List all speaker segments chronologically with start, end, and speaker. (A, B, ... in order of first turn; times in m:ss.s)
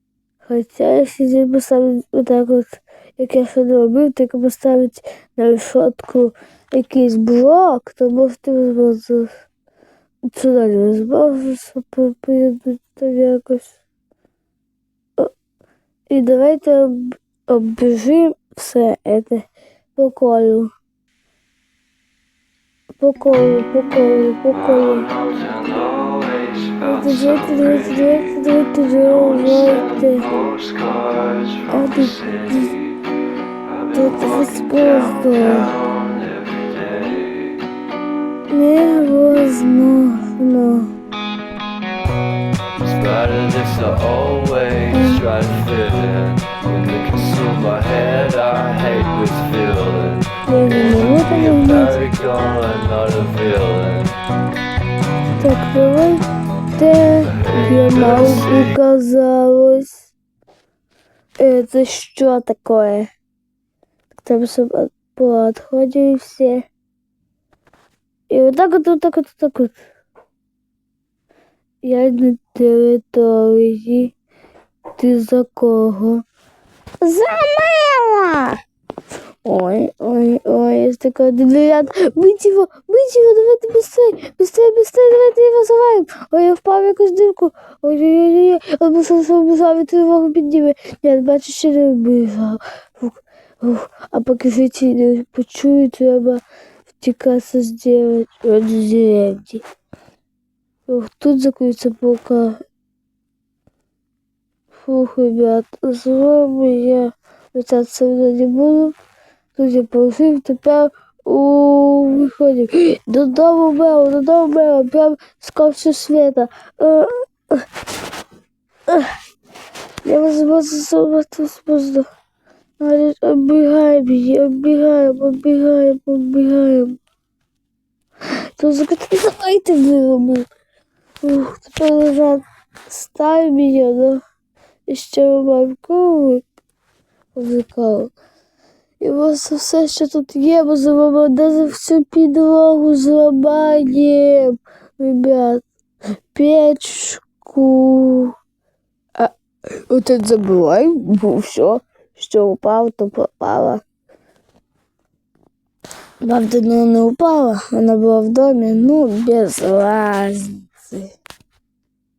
0:00.4-0:09.3 A
0:10.3-0:13.7 A
0:16.1-0:19.4 A
0:20.0-0:20.7 A
0:23.0-0:25.1 A
0:24.9-0:28.2 B
0:26.8-0:30.3 A
0:29.1-0:32.7 B
0:31.7-0:32.8 A
0:33.7-0:37.5 B
0:33.9-0:35.7 A
0:38.5-0:40.9 A
0:42.8-0:54.1 B
0:44.9-0:45.2 A
0:50.4-0:52.0 A
0:55.4-0:56.2 A
0:56.8-1:00.1 A
0:57.3-0:58.7 B
1:01.4-1:03.1 A
1:04.1-1:06.6 A
1:08.3-1:09.8 A
1:11.8-1:14.1 A
1:15.0-1:16.2 A
1:17.0-1:18.6 A
1:19.4-1:39.6 A
1:40.9-1:42.6 A
1:44.8-1:48.9 A
1:49.6-1:57.6 A
1:58.9-1:59.1 A
2:00.0-2:02.1 A
2:02.8-2:07.0 A
2:08.6-2:10.5 A
2:11.2-2:14.2 A
2:14.9-2:16.4 A
2:17.4-2:18.1 A
2:19.0-2:25.6 A
2:26.3-2:28.3 A
2:29.9-2:33.8 A
2:36.2-2:41.1 A